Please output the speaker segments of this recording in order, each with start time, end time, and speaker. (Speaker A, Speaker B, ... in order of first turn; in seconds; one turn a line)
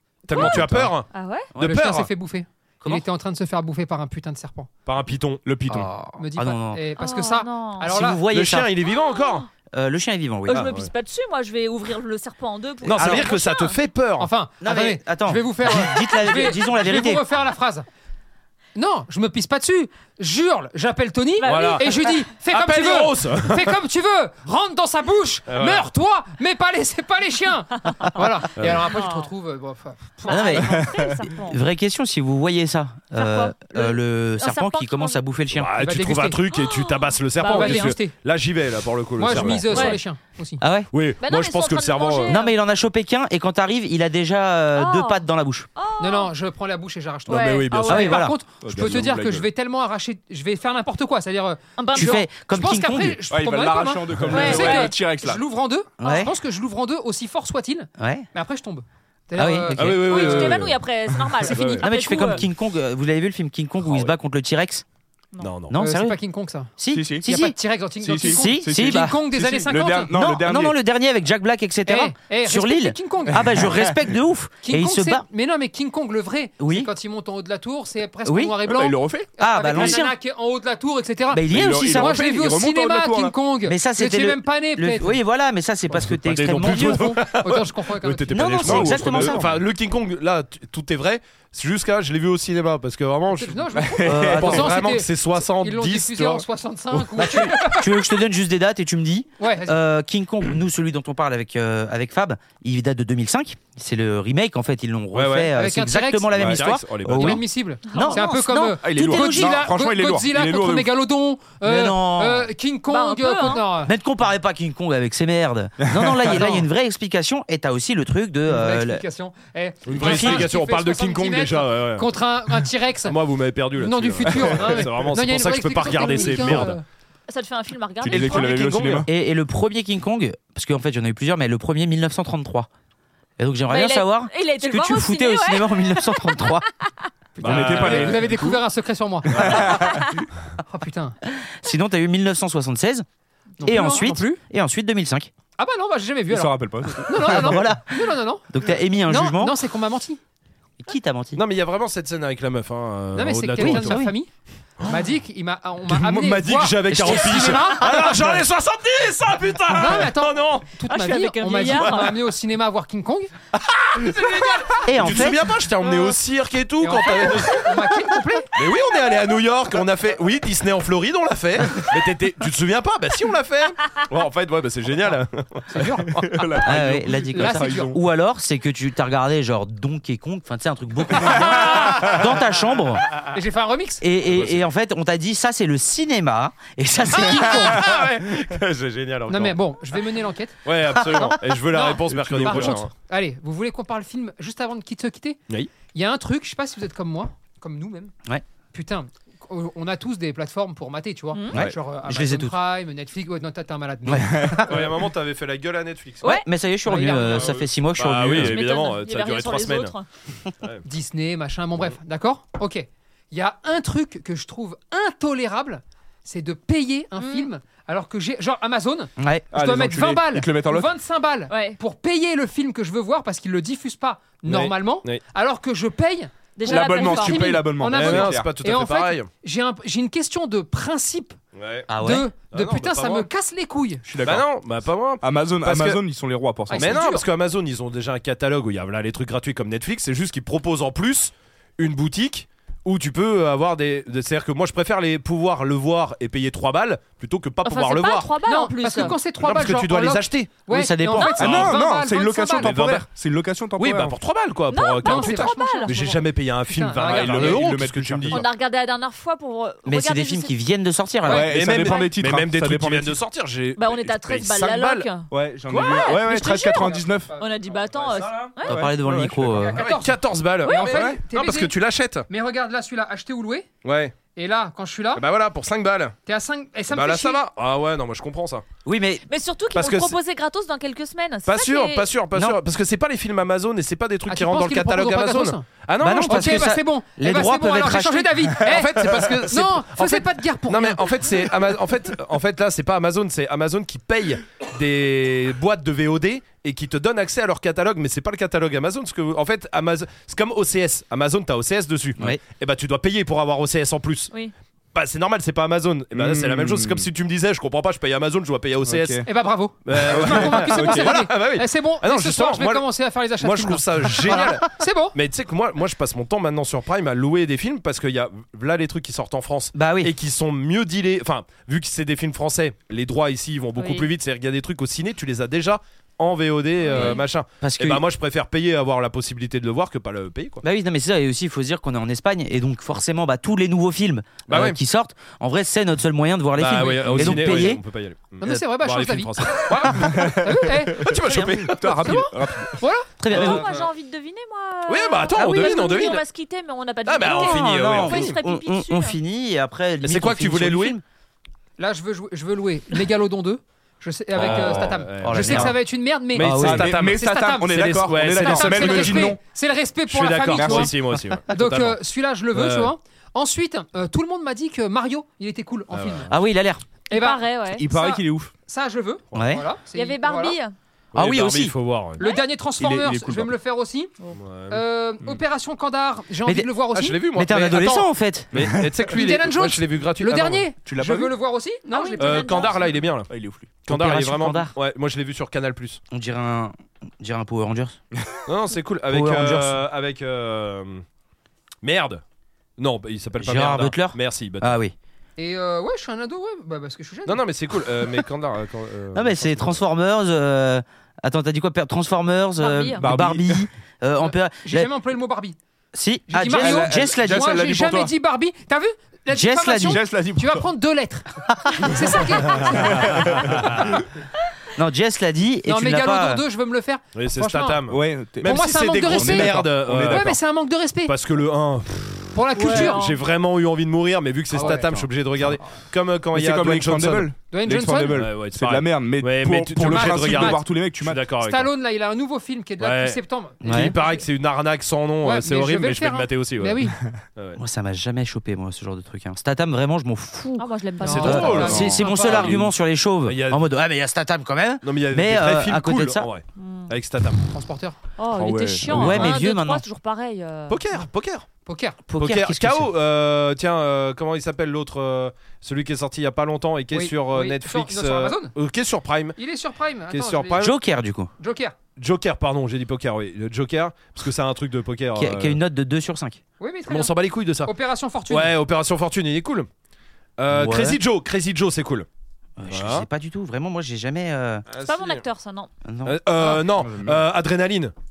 Speaker A: 0.2-1.1
Speaker B: 0.3-1.5
Speaker C: 0.4-0.9
Speaker C: 1.5-1.8
Speaker A: 1.6-2.1
Speaker D: 1.6-4.7
Speaker A: 4.8-5.4
Speaker E: 5.4-6.0
Speaker C: 5.7-6.8
Speaker D: 6.2-8.2
Speaker B: 7.0-7.9
Speaker C: 7.8-8.7
Speaker A: 8.3-9.4
Speaker B: 8.8-9.4
Speaker C: 9.7-10.7
Speaker B: 10.5-13.8
Speaker A: 10.5-10.9
Speaker A: 12.8-14.3
Speaker C: 12.9-13.3
Speaker D: 14.2-17.9
Speaker C: 14.6-17.2
Speaker D: 18.7-30.6
Speaker B: 21.4-22.2
Speaker A: 21.4-23.8
Speaker A: 25.5-25.9
Speaker A: 28.6-28.9
Speaker B: 28.9-29.3
Speaker B: 30.3-31.6
Speaker C: 30.3-35.8
Speaker E: 30.7-31.0
Speaker B: 33.1-35.2
Speaker A: 35.5-40.0
Speaker D: 35.8-36.4
Speaker B: 36.5-38.0
Speaker D: 37.5-38.1
Speaker E: 37.6-38.0
Speaker D: 39.2-40.6
Speaker E: 39.3-39.6
Speaker B: 39.7-40.0
Speaker C: 40.6-40.9
Speaker A: 40.9-42.4
Speaker B: 41.2-42.5
Speaker C: 42.3-45.7
Speaker B: 44.7-45.2
Speaker B: 45.8-46.3
Speaker D: 46.0-60.3
Speaker B: 47.3-48.2
Speaker E: 47.4-47.9
Speaker C: 47.9-48.4
Speaker E: 48.6-49.5
Speaker B: 51.8-52.2
Speaker C: 51.9-53.2
Speaker E: 53.3-55.4
Speaker B: 54.3-54.9
Speaker C: 56.0-56.3
Speaker C: 58.0-58.3
Speaker C: 59.4-60.4
Speaker A: 59.8-60.8
Speaker B: 60.0-62.4
Speaker E: 60.1-60.6
Speaker A: 61.5-61.9
Speaker C: 61.5-64.8
Speaker A: 65.4-65.8
Speaker C: 65.7-66.2
Speaker D: 65.8-70.1
Speaker C: 66.8-67.5
Speaker E: 66.9-67.3
Speaker E: 68.0-70.7
Speaker C: 68.2-69.2
Speaker C: 70.1-75.2
Speaker D: 71.9-73.7
Speaker D: 74.6-85.1
Speaker C: 76.6-76.9
Speaker C: 78.2-78.5
Speaker E: 78.7-80.0
Speaker C: 79.4-80.1
Speaker C: 81.3-82.6
Speaker E: 81.5-83.3
Speaker C: 83.6-87.1
Speaker A: 86.0-96.5
Speaker D: 86.5-88.6
Speaker E: 88.1-89.5
Speaker C: 88.3-89.5
Speaker D: 93.3-98.0
Speaker E: 93.8-94.5
Speaker C: 94.0-94.8
Speaker C: 97.1-109.7
Speaker D: 99.4-99.8
Speaker A: 105.1-105.5
Speaker D: 105.5-106.4
Speaker A: 106.3-107.4
Speaker E: 106.3-106.6
Speaker D: 107.1-113.9
Speaker B: 107.9-108.2
Speaker E: 108.8-110.9
Speaker C: 111.6-112.5
Speaker B: 112.9-113.7
Speaker C: 113.8-119.0
Speaker E: 115.8-116.5
Speaker D: 116.4-116.6
Speaker D: 118.5-123.2
Speaker A: 119.8-122.1
Speaker C: 120.0-120.5
Speaker A: 123.1-126.8
Speaker D: 123.8-126.8
Speaker E: 124.2-124.9
Speaker B: 126.0-126.3
Speaker E: 126.4-126.7
Speaker B: 127.3-129.0
Speaker E: 128.0-129.1
Speaker A: 128.1-129.0
Speaker C: 129.1-132.7
Speaker C: 133.4-136.6
Speaker B: 133.7-137.1
Speaker A: 137.4-138.2
Speaker D: 137.4-140.0
Speaker E: 137.4-138.6
Speaker E: 139.3-140.1
Speaker D: 140.6-141.2
Speaker C: 141.4-143.0
Speaker D: 143.6-144.4
Speaker C: 143.6-145.3
Speaker D: 145.6-148.5
Speaker E: 146.3-147.5
Speaker C: 147.2-149.6
Speaker D: 149.1-150.2
Speaker C: 150.8-151.4
Speaker A: 151.3-154.0
Speaker D: 153.1-154.3
Speaker C: 153.6-154.1
Speaker D: 154.8-158.0
Speaker A: 155.9-160.7
Speaker C: 156.9-158.2
Speaker D: 159.7-163.3
Speaker B: 160.9-162.2
Speaker A: 161.7-162.0
Speaker A: 163.6-167.8
Speaker C: 164.8-165.5
Speaker D: 165.8-166.1
Speaker D: 166.8-168.5
Speaker A: 168.5-176.2
Speaker D: 175.7-176.1
Speaker E: 176.1-178.0
Speaker C: 176.6-183.1
Speaker D: 177.3-177.9
Speaker E: 181.4-182.1
Speaker D: 183.3-184.0
Speaker C: 184.0-187.8
Speaker A: 184.2-184.6
Speaker D: 187.1-188.0
Speaker A: 187.7-189.6
Speaker D: 189.3-190.6
Speaker A: 190.6-192.9
Speaker D: 191.7-198.1
Speaker E: 192.1-192.8
Speaker D: 198.7-204.9
Speaker C: 201.5-202.6
Speaker C: 204.1-204.6
Speaker E: 204.3-204.6
Speaker A: 204.7-206.4
Speaker C: 206.2-208.6
Speaker D: 206.8-207.5
Speaker A: 207.4-209.9
Speaker B: 208.4-210.1
Speaker D: 210.8-231.4
Speaker B: 217.2-217.5
Speaker C: 219.2-219.5
Speaker E: 219.5-220.9
Speaker B: 221.5-221.8
Speaker A: 224.4-225.2
Speaker B: 226.6-227.6
Speaker E: 226.7-228.5
Speaker A: 227.9-229.3
Speaker A: 231.5-231.9
Speaker C: 231.9-232.3
Speaker D: 232.0-234.1
Speaker A: 232.5-233.3
Speaker E: 234.1-234.5
Speaker A: 234.2-236.0
Speaker E: 235.2-237.1
Speaker D: 236.7-237.2
Speaker A: 236.7-248.3
Speaker B: 247.6-249.2
Speaker D: 248.4-252.7
Speaker A: 249.4-250.5
Speaker C: 250.7-251.4
Speaker B: 251.1-251.7
Speaker E: 251.3-254.1
Speaker A: 252.6-253.1
Speaker A: 253.8-258.4
Speaker B: 254.7-255.9
Speaker D: 255.0-257.7
Speaker E: 257.0-258.5
Speaker B: 258.3-260.5
Speaker C: 259.9-261.5
Speaker E: 261.2-263.2
Speaker B: 261.3-262.1
Speaker A: 261.4-265.1
Speaker B: 263.8-268.8
Speaker E: 265.3-267.3
Speaker A: 265.7-266.1
Speaker D: 266.7-268.3
Speaker A: 268.0-268.5
Speaker C: 268.6-269.9
Speaker E: 268.7-269.6
Speaker D: 269.5-271.8
Speaker A: 269.7-272.3
Speaker B: 270.6-271.0
Speaker E: 270.9-271.2
Speaker D: 272.3-273.7
Speaker A: 273.8-274.1
Speaker D: 274.3-275.2
Speaker A: 275.1-276.1
Speaker D: 276.2-277.4
Speaker A: 276.9-278.6
Speaker C: 278.8-279.3
Speaker B: 279.3-282.1
Speaker A: 279.7-280.1
Speaker A: 281.4-286.7
Speaker D: 284.3-285.6
Speaker C: 286.0-288.6
Speaker D: 286.2-291.5
Speaker A: 288.6-304.3
Speaker A: 304.9-309.2
Speaker E: 306.1-307.1
Speaker E: 308.9-309.2
Speaker D: 309.2-315.1
Speaker A: 309.8-312.9
Speaker E: 310.0-311.3
Speaker A: 313.4-330.6
Speaker C: 319.7-320.1
Speaker B: 323.8-324.1
Speaker B: 326.8-327.2
Speaker C: 327.0-328.0
Speaker C: 330.6-337.8
Speaker A: 334.5-334.8
Speaker A: 336.6-340.4
Speaker E: 337.0-337.8
Speaker D: 338.4-339.4
Speaker E: 339.9-342.8
Speaker D: 340.4-341.1
Speaker A: 340.9-342.2
Speaker D: 342.0-343.1
Speaker C: 343.2-343.7
Speaker B: 343.3-349.2
Speaker A: 343.3-343.9
Speaker A: 344.9-346.2
Speaker A: 347.1-348.4
Speaker C: 347.2-351.0
Speaker A: 350.0-351.0
Speaker D: 351.8-360.9
Speaker A: 354.4-355.8
Speaker C: 354.4-355.8
Speaker A: 356.3-359.4
Speaker C: 356.4-356.9
Speaker E: 356.4-359.4
Speaker A: 360.1-362.0
Speaker E: 360.5-360.9
Speaker D: 361.5-366.3
Speaker A: 362.5-362.9
Speaker A: 365.9-366.4
Speaker C: 366.3-366.8
Speaker B: 367.1-368.2
Speaker D: 367.1-370.6
Speaker E: 367.7-368.5
Speaker C: 369.3-369.6
Speaker B: 369.9-370.7
Speaker A: 371.1-372.2
Speaker C: 371.1-371.7
Speaker B: 372.2-372.5
Speaker D: 372.2-374.1
Speaker E: 372.8-373.5
Speaker A: 374.3-375.4
Speaker D: 374.7-377.2
Speaker C: 376.4-376.7
Speaker A: 376.9-380.6
Speaker C: 377.3-378.5
Speaker D: 379.1-382.8
Speaker E: 380.8-381.3
Speaker B: 381.9-383.0
Speaker A: 382.2-383.3
Speaker E: 383.3-383.8
Speaker A: 383.8-386.0
Speaker C: 383.9-384.7
Speaker C: 386.1-388.0
Speaker A: 388.4-391.0
Speaker C: 389.1-389.8
Speaker A: 391.8-392.2
Speaker A: 392.8-394.8
Speaker C: 393.4-394.9
Speaker D: 395.4-397.4
Speaker A: 397.2-399.8
Speaker C: 399.1-404.9
Speaker B: 402.6-403.0
Speaker E: 403.0-403.6
Speaker D: 404.2-405.6
Speaker C: 405.9-407.5
Speaker D: 406.3-413.4
Speaker E: 406.5-408.1
Speaker C: 409.3-410.0
Speaker E: 409.8-410.6
Speaker E: 412.6-414.0
Speaker A: 412.7-414.0
Speaker C: 414.7-416.4
Speaker D: 415.7-417.8
Speaker A: 417.1-420.4
Speaker E: 417.9-420.4
Speaker D: 418.4-421.1
Speaker A: 421.1-427.3
Speaker D: 422.3-423.0
Speaker B: 422.6-423.2
Speaker D: 424.5-425.1
Speaker E: 426.3-431.3
Speaker D: 427.5-428.2
Speaker A: 428.1-431.7
Speaker D: 429.8-430.7
Speaker D: 431.4-434.2
Speaker A: 432.8-436.8
Speaker C: 433.6-433.9
Speaker D: 435.2-437.0
Speaker A: 437.3-437.6
Speaker C: 437.6-440.7
Speaker B: 440.6-442.0
Speaker D: 441.0-442.6
Speaker A: 441.0-442.6
Speaker C: 441.2-446.3
Speaker E: 442.3-442.6
Speaker A: 443.2-443.6
Speaker A: 444.8-447.4
Speaker B: 446.6-446.9
Speaker D: 447.5-448.0
Speaker B: 448.2-450.8
Speaker E: 448.3-449.1
Speaker C: 448.9-449.8
Speaker A: 450.7-451.5
Speaker D: 451.6-452.0
Speaker C: 452.1-452.9
Speaker A: 452.1-459.4
Speaker D: 456.9-458.5
Speaker D: 459.4-460.7
Speaker A: 460.1-460.8
Speaker C: 460.6-461.3
Speaker D: 461.4-461.7
Speaker A: 462.0-465.6
Speaker C: 465.1-466.4
Speaker D: 466.6-467.1
Speaker A: 466.9-467.7
Speaker D: 467.6-468.5
Speaker A: 468.3-469.7
Speaker A: 470.4-472.1
Speaker C: 470.5-471.0
Speaker C: 472.6-474.6
Speaker A: 472.7-473.1
Speaker A: 474.7-475.2
Speaker B: 474.8-475.7
Speaker C: 475.8-476.2
Speaker A: 476.0-477.9
Speaker E: 476.8-477.2